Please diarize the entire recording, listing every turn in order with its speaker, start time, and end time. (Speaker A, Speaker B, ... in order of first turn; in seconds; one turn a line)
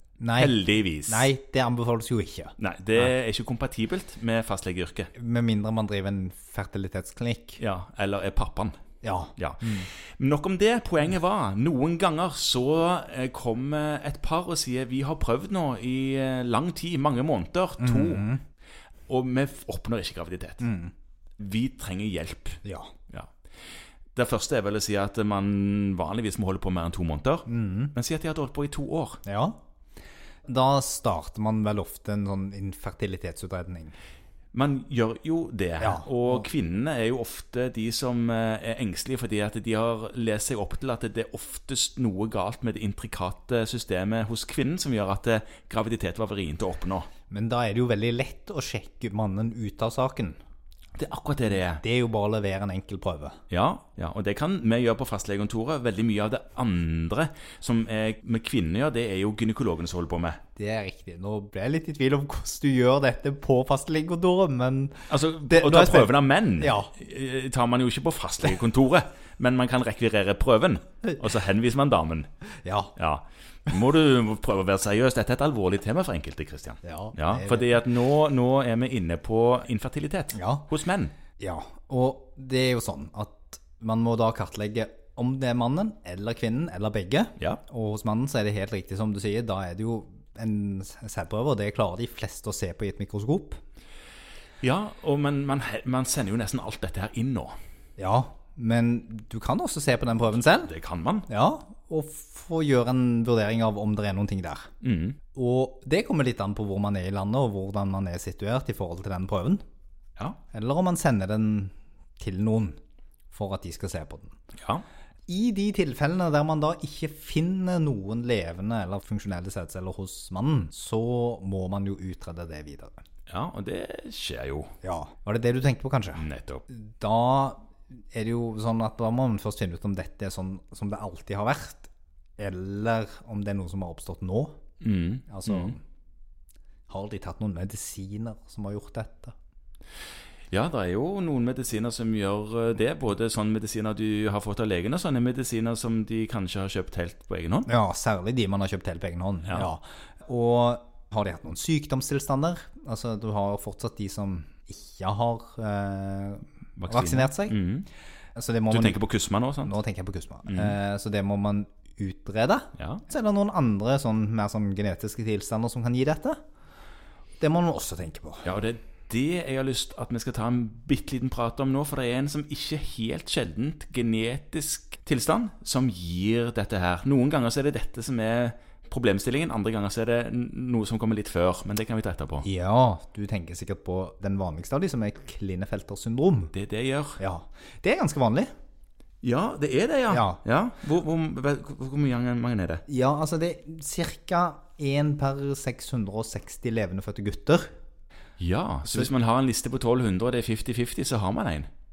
Speaker A: 0.2-0.5
Speaker B: 0.3-1.3
Speaker A: 1.1-3.0
Speaker B: 2.6-5.1
Speaker A: 5.1-7.6
Speaker B: 7.6-8.8
Speaker A: 9.0-9.9
Speaker B: 9.4-18.2
Speaker A: 17.8-18.4
Speaker B: 19.1-20.6
Speaker A: 20.6-20.9
Speaker B: 21.4-23.3
Speaker A: 22.6-22.9
Speaker B: 24.1-29.2
Speaker A: 27.5-27.9
Speaker A: 29.2-29.6
Speaker A: 30.4-33.9
Speaker B: 34.5-47.1
Speaker A: 35.8-36.4
Speaker A: 47.3-50.4
Speaker B: 51.0-51.8
Speaker A: 51.8-53.4
Speaker B: 53.5-60.4
Speaker A: 60.5-66.9
Speaker B: 65.1-72.3
Speaker A: 72.6-72.9
Speaker B: 73.0-81.1
Speaker A: 76.8-77.8
Speaker A: 80.3-80.7
Speaker A: 81.4-93.6
Speaker B: 94.6-97.5
Speaker A: 98.0-100.7
Speaker B: 100.5-101.3
Speaker A: 101.3-104.7
Speaker B: 104.8-105.2
Speaker A: 105.3-109.6
Speaker A: 110.5-112.8
Speaker A: 113.3-114.3
Speaker B: 114.6-114.8
Speaker A: 115.3-122.9
Speaker B: 123.3-124.7
Speaker A: 124.8-134.6
Speaker B: 126.2-126.6
Speaker B: 134.8-135.7
Speaker A: 135.3-135.8
Speaker A: 136.9-139.3
Speaker B: 140.5-147.7
Speaker A: 147.7-157.6
Speaker B: 156.8-157.9
Speaker A: 158.3-159.0
Speaker B: 158.7-159.7
Speaker A: 159.6-166.4
Speaker B: 160.5-160.8
Speaker B: 162.8-163.0
Speaker A: 167.4-168.5
Speaker B: 168.4-182.5
Speaker A: 182.4-186.5
Speaker B: 186.5-187.2
Speaker A: 187.2-188.5
Speaker B: 189.2-192.8
Speaker A: 190.1-190.4
Speaker A: 192.9-197.7
Speaker B: 198.4-201.7